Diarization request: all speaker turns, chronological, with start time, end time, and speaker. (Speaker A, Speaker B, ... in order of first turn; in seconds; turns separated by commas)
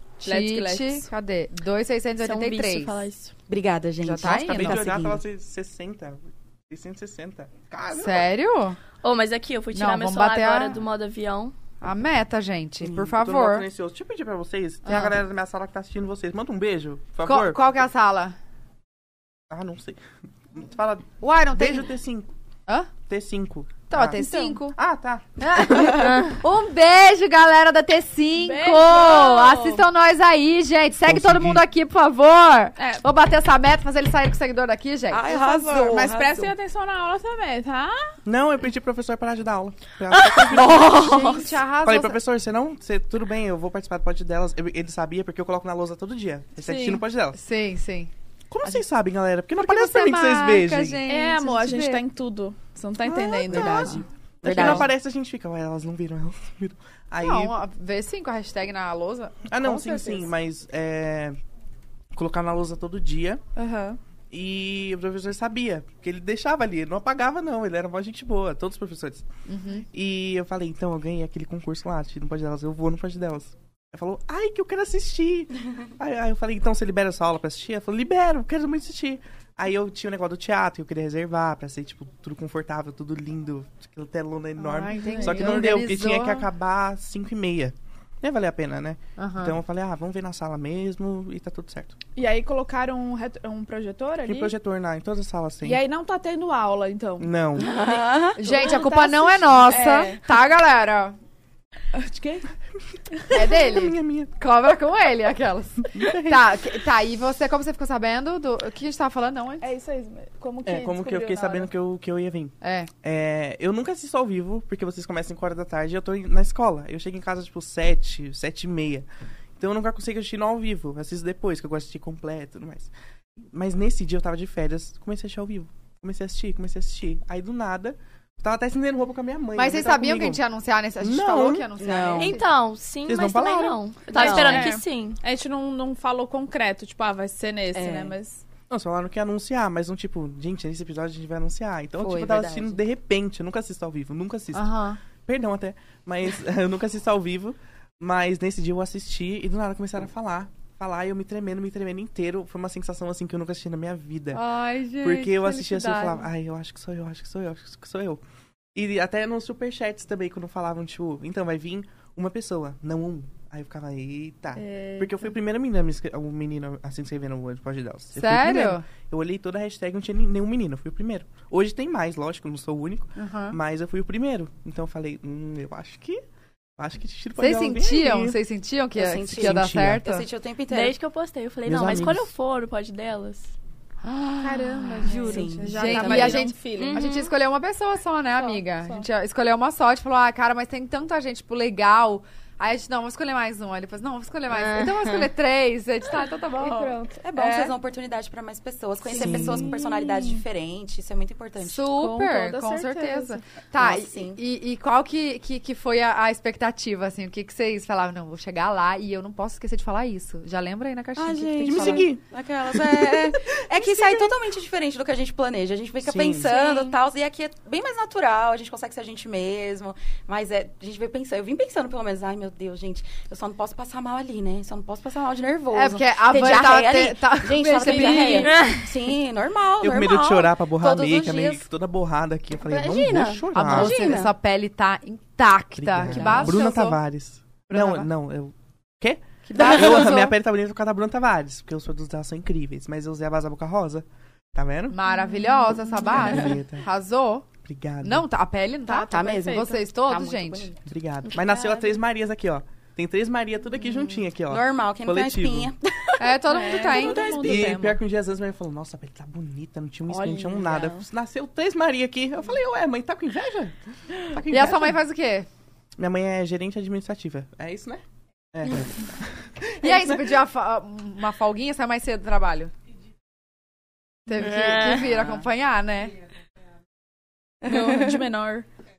Speaker A: 0.2-3.0, Speaker B: 0.2-1.1, Speaker C: 2.2-3.3, Speaker D: 3.5-5.2, Speaker A: 4.0-4.8, Speaker E: 4.2-8.3, Speaker A: 7.9-8.8, Speaker C: 9.0-11.5, Speaker A: 9.7-10.8, Speaker A: 11.8-13.6, Speaker E: 13.1-17.6, Speaker A: 14.9-15.1, Speaker A: 17.2-18.4, Speaker E: 19.5-20.0, Speaker E: 20.5-22.3, Speaker A: 21.2-21.9, Speaker E: 23.1-26.2, Speaker A: 23.9-24.8, Speaker B: 24.2-24.5, Speaker A: 25.4-35.3, Speaker C: 26.0-26.3, Speaker B: 28.4-29.8, Speaker E: 31.1-31.6, Speaker B: 32.8-33.0, Speaker D: 35.1-36.5, Speaker B: 35.3-38.2, Speaker E: 38.3-41.0, Speaker D: 40.1-41.6, Speaker A: 40.7-42.2, Speaker E: 41.8-47.4, Speaker B: 46.6-47.0, Speaker A: 47.4-48.1, Speaker E: 48.5-51.0, Speaker A: 49.5-52.0, Speaker B: 51.0-54.8, Speaker E: 53.0-57.5, Speaker D: 53.5-54.9, Speaker A: 57.2-60.3, Speaker E: 59.5-61.4, Speaker E: 62.1-63.4, Speaker B: 63.5-64.0, Speaker E: 64.3-69.3, Speaker A: 69.5-69.9, Speaker E: 69.9-92.0, Speaker A: 84.6-86.5, Speaker B: 85.0-85.6, Speaker A: 89.2-89.5, Speaker B: 92.2-94.5, Speaker E: 94.2-95.8, Speaker B: 95.6-100.2, Speaker E: 97.2-97.8, Speaker D: 97.5-99.3, Speaker A: 98.4-101.2, Speaker B: 101.9-102.5, Speaker A: 103.3-109.6, Speaker E: 103.4-104.3, Speaker E: 105.9-106.6, Speaker B: 109.6-111.7, Speaker E: 110.6-119.0, Speaker A: 112.6-112.9, Speaker E: 119.6-122.9, Speaker E: 123.5-130.4, Speaker A: 129.6-132.4, Speaker E: 131.0-131.7, Speaker D: 131.8-132.4, Speaker C: 132.2-135.2, Speaker E: 133.1-133.8, Speaker B: 134.1-138.4, Speaker D: 134.1-134.7, Speaker D: 137.7-138.1, Speaker E: 138.7-144.7, Speaker D: 142.0-142.8, Speaker A: 144.5-145.0, Speaker E: 145.3-154.4, Speaker A: 154.3-156.2, Speaker E: 155.0-158.2, Speaker E: 158.7-176.2, Speaker B: 164.6-165.2, Speaker A: 168.2-168.8, Speaker A: 173.2-173.6, Speaker E: 176.8-178.4, Speaker A: 177.4-180.3, Speaker D: 178.9-180.9, Speaker E: 179.4-180.0, Speaker C: 180.7-183.5, Speaker E: 181.7-182.3, Speaker A: 184.0-196.9, Speaker B: 184.4-187.1, Speaker D: 185.1-186.4, Speaker C: 185.1-187.3, Speaker B: 188.3-189.1, Speaker B: 196.2-197.7, Speaker D: 197.2-201.9, Speaker E: 199.2-199.8, Speaker B: 199.2-200.4, Speaker A: 201.6-212.1, Speaker B: 201.9-203.4, Speaker D: 203.8-204.4, Speaker D: 211.2-231.6, Speaker E: 211.6-214.3, Speaker E: 216.0-216.5, Speaker A: 216.5-216.9, Speaker A: 225.7-228.5, Speaker B: 227.8-228.7, Speaker C: 228.5-228.9, Speaker E: 229.8-234.2, Speaker D: 232.6-234.3, Speaker A: 233.5-237.0, Speaker E: 235.8-245.0, Speaker D: 236.1-236.6, Speaker A: 237.7-238.1, Speaker D: 239.5-240.3, Speaker A: 239.6-240.3, Speaker A: 244.9-247.4, Speaker B: 245.3-245.8, Speaker E: 245.9-246.9, Speaker E: 247.6-248.2, Speaker A: 248.0-250.7, Speaker D: 248.9-250.8, Speaker B: 249.1-249.6, Speaker E: 250.9-255.7, Speaker B: 251.3-251.9, Speaker D: 254.5-257.7, Speaker A: 256.2-258.0, Speaker B: 256.4-257.9, Speaker E: 257.4-265.0, Speaker B: 260.1-261.0, Speaker A: 264.5-265.5, Speaker E: 266.0-268.0, Speaker E: 268.5-270.4, Speaker A: 269.7-272.7, Speaker A: 274.3-276.2, Speaker D: 274.6-275.2, Speaker B: 277.6-278.7